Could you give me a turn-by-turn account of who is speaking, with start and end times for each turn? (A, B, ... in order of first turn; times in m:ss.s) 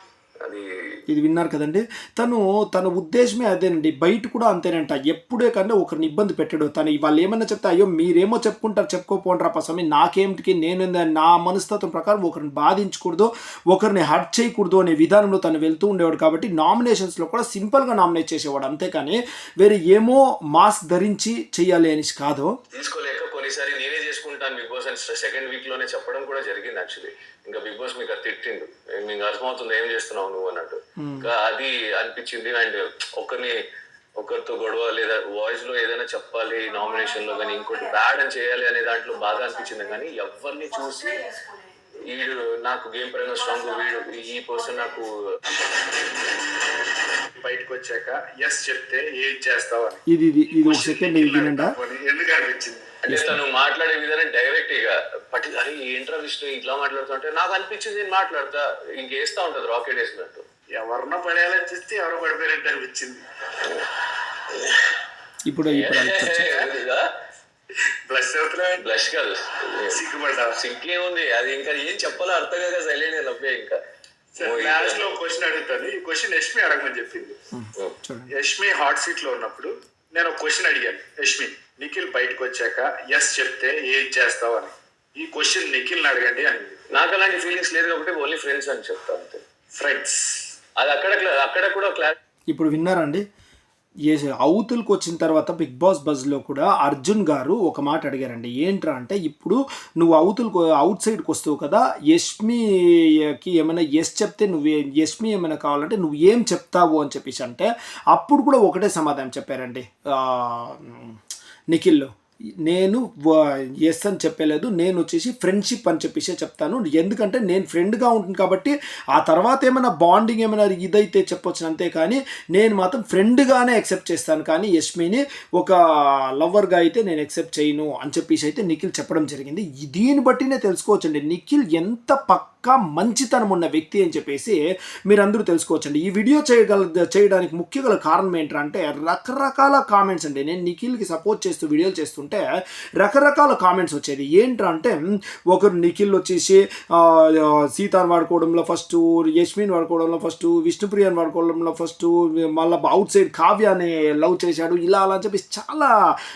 0:00.4-0:01.0 A
0:01.1-0:22.5 B
0:22.7-0:33.5 A
0:31.0-0:31.3 B
0:34.2-0:41.3 A
0:42.0-0:45.1 A
0:47.4-0:52.9 C
0:50.1-0:51.7 B
0:53.0-1:00.4 A
0:53.1-0:53.4 B
1:00.7-1:03.2 C
1:03.6-1:03.9 A
1:04.5-1:04.9 A
1:05.5-1:06.5 B
1:05.7-1:07.1 A
1:06.4-1:06.7 C
1:08.1-1:08.8 C
1:08.8-1:10.0 A
1:09.9-1:10.6 C
1:10.6-1:13.8 A
1:14.3-1:17.4 C
1:14.4-1:15.2 A
1:17.5-1:18.3 B
1:18.3-1:26.8 C
1:26.9-1:29.4 A
1:29.8-1:30.5 C
1:30.8-1:32.1 A
1:32.5-1:33.2 B
1:34.1-1:51.2 B
1:51.7-1:52.1 B
1:52.6-2:05.8 B
2:06.4-2:14.6 B
2:15.1-2:22.4 B
2:23.0-2:25.0 B
2:25.5-2:35.9 B